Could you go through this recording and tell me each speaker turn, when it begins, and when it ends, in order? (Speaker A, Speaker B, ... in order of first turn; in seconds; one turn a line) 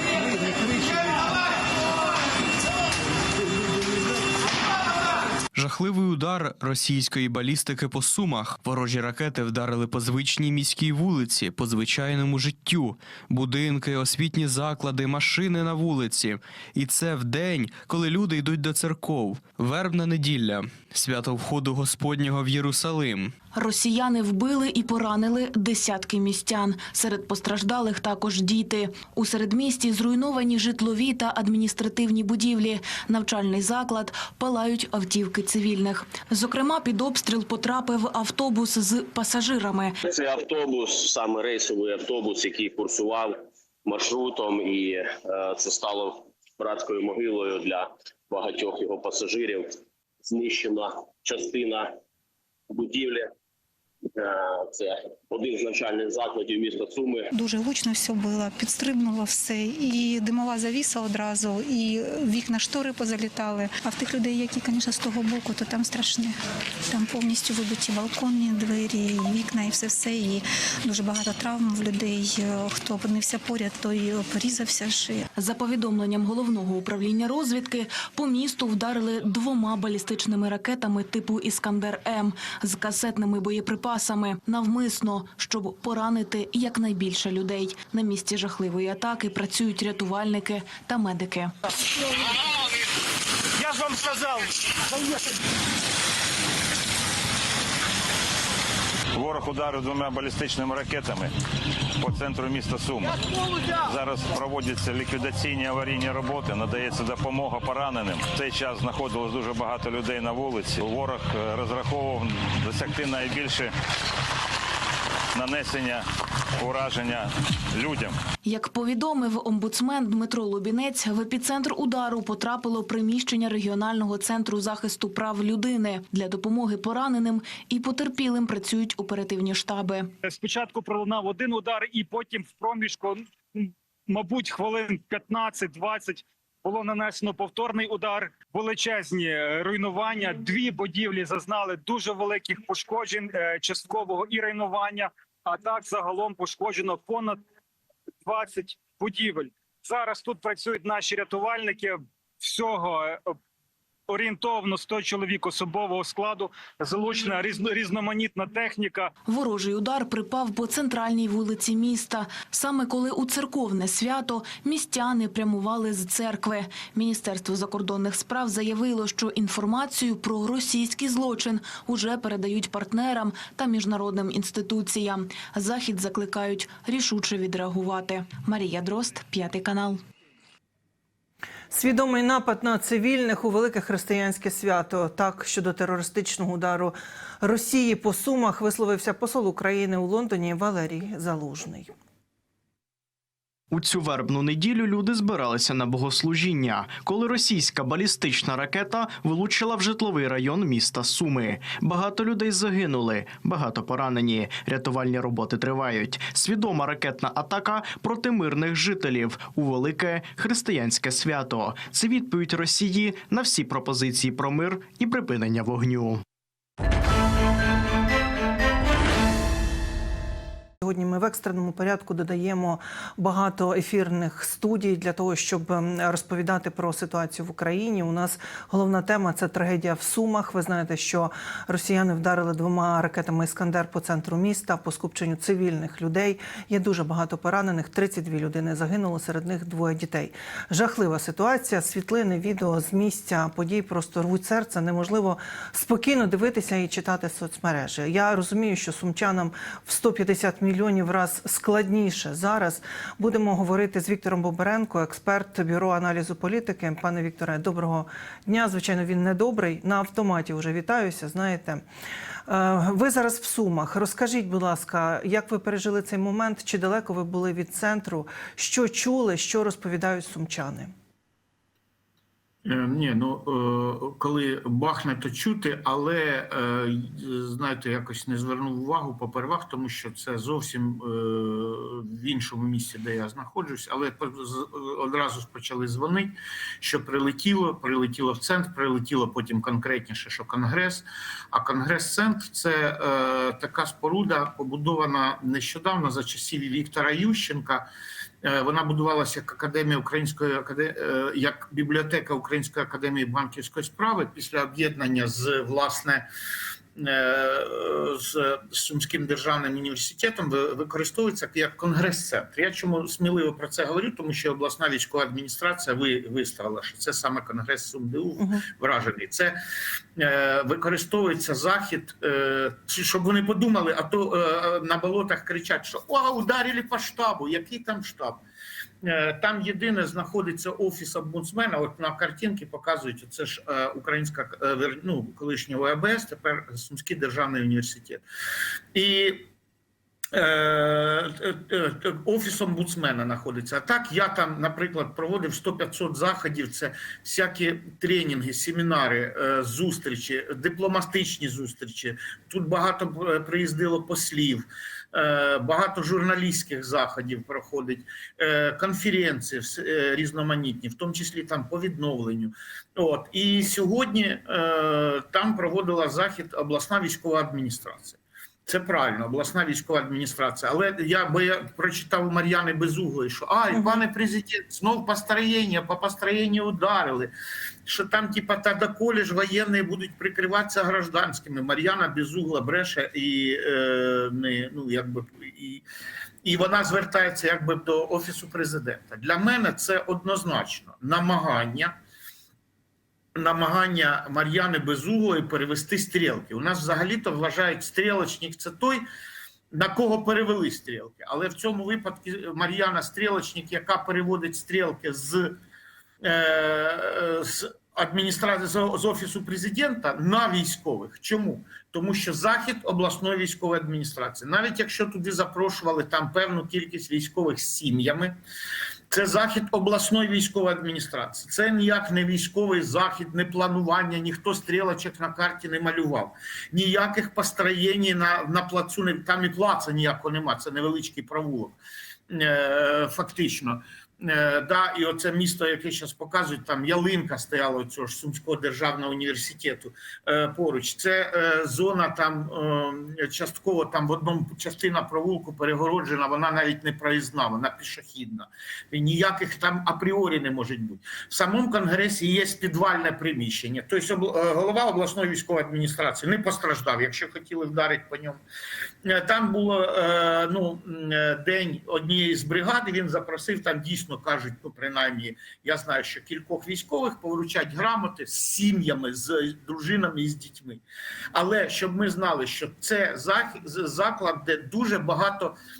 Speaker A: 5.5-23.3
Speaker B: 23.6-40.0
Speaker C: 40.0-49.8
Speaker C: 50.3-51.9
Speaker C: 52.7-53.3
Speaker C: 54.1-57.3
Speaker D: 57.3-66.4
Speaker D: 66.9-75.2
Speaker B: 75.4-91.5
Speaker E: 93.8-94.2
Speaker F: 99.1-101.3
Speaker F: 102.0-113.7
Speaker F: 115.3-116.1
Speaker F: 116.6-118.2
Speaker B: 118.5-130.1
Speaker E: 130.2-147.4
Speaker E: 148.2-153.4
Speaker E: 154.1-159.1
Speaker B: 159.3-180.0
Speaker G: 181.7-191.9
Speaker H: 193.7-216.2
Speaker G: 220.8-261.8
Speaker G: 262.5-270.9
Speaker I: 272.6-297.9
Speaker I: 298.4-306.3
Speaker I: 307.0-319.6
Speaker G: 318.4-318.6
Speaker I: 320.2-328.4
Speaker I: 329.0-338.2
Speaker I: 338.9-339.5
Speaker I: 340.3-377.3
Speaker G: 373.7-374.0
Speaker I: 377.9-385.8
Speaker I: 386.4-391.9
Speaker I: 393.4-399.0
Speaker I: 399.7-405.6
Speaker I: 406.2-418.4
Speaker I: 419.1-431.8
Speaker I: 432.3-458.4
Speaker I: 459.1-470.8
Speaker I: 471.3-475.6